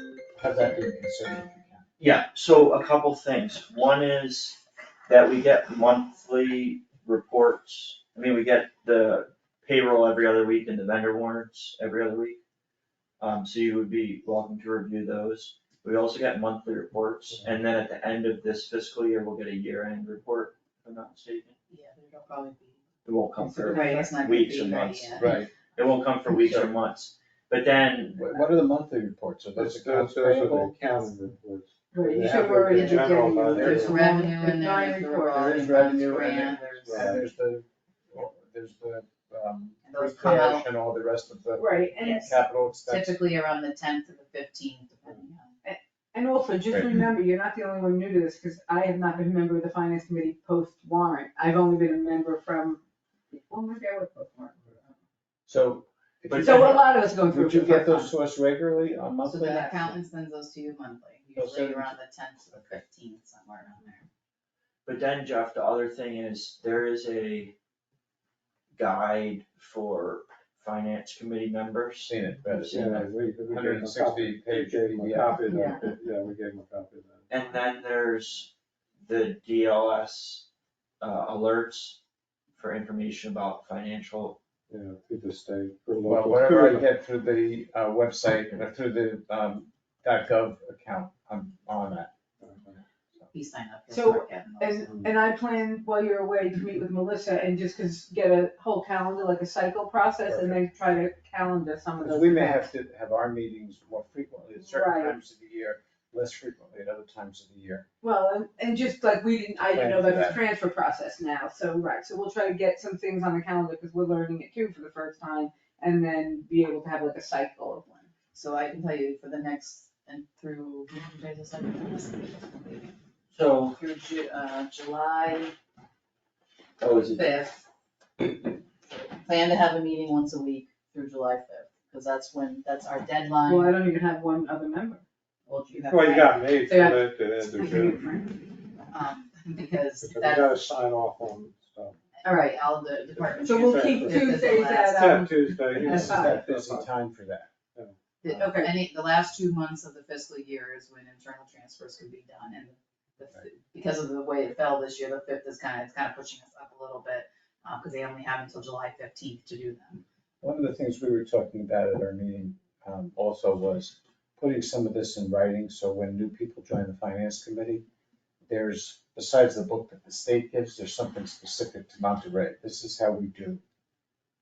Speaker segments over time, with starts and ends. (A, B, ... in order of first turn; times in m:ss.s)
0:00.4-0:01.8 A
0:02.0-0:12.4 B
0:13.2-0:21.5 B
0:21.7-0:22.8 C
0:23.0-0:28.2 B
0:23.4-0:24.1 D
0:23.7-0:25.4 C
0:25.2-0:25.5 A
0:26.4-0:26.7 A
0:28.1-0:31.1 A
0:29.6-0:34.0 E
0:31.9-0:35.6 D
0:32.7-0:37.2 C
0:33.5-0:34.2 A
0:35.3-0:43.2 A
0:36.8-0:37.3 E
0:39.8-0:40.6 C
0:41.5-0:42.2 D
0:42.0-0:45.6 C
0:45.6-0:54.9 D
0:55.5-0:59.7 A
0:56.3-0:56.8 B
0:56.4-0:58.1 D
0:59.3-1:04.0 C
0:59.4-0:59.8 D
1:01.3-1:02.0 A
1:04.8-1:07.5 B
1:08.7-1:12.9 B
1:12.0-1:15.7 A
1:12.5-1:17.3 E
1:15.5-1:15.8 C
1:17.3-1:18.5 B
1:19.0-1:20.4 B
1:21.0-1:22.0 B
1:22.6-1:24.4 B
1:24.7-1:26.8 E
1:26.0-1:32.1 A
1:32.4-1:32.7 E
1:33.3-1:35.0 C
1:33.9-1:42.7 D
1:40.3-1:40.6 A
1:42.0-1:47.8 A
1:44.6-1:45.2 D
1:48.0-1:58.0 D
1:49.6-1:50.4 A
1:58.3-2:02.9 C
2:03.3-2:03.8 B
2:03.7-2:05.5 C
2:06.8-2:07.4 B
2:07.1-2:07.6 C
2:08.2-2:13.8 C
2:13.4-2:15.0 D
2:15.5-2:16.5 C
2:15.8-2:18.0 E
2:16.6-2:18.3 D
2:18.9-2:20.7 C
2:20.0-2:22.0 E
2:22.2-2:25.0 C
2:23.4-2:26.4 D
2:23.5-2:27.0 E
2:25.7-2:27.5 A
2:28.2-2:40.0 C
2:28.3-2:28.8 D
2:40.4-2:47.8 A
2:48.5-2:53.6 A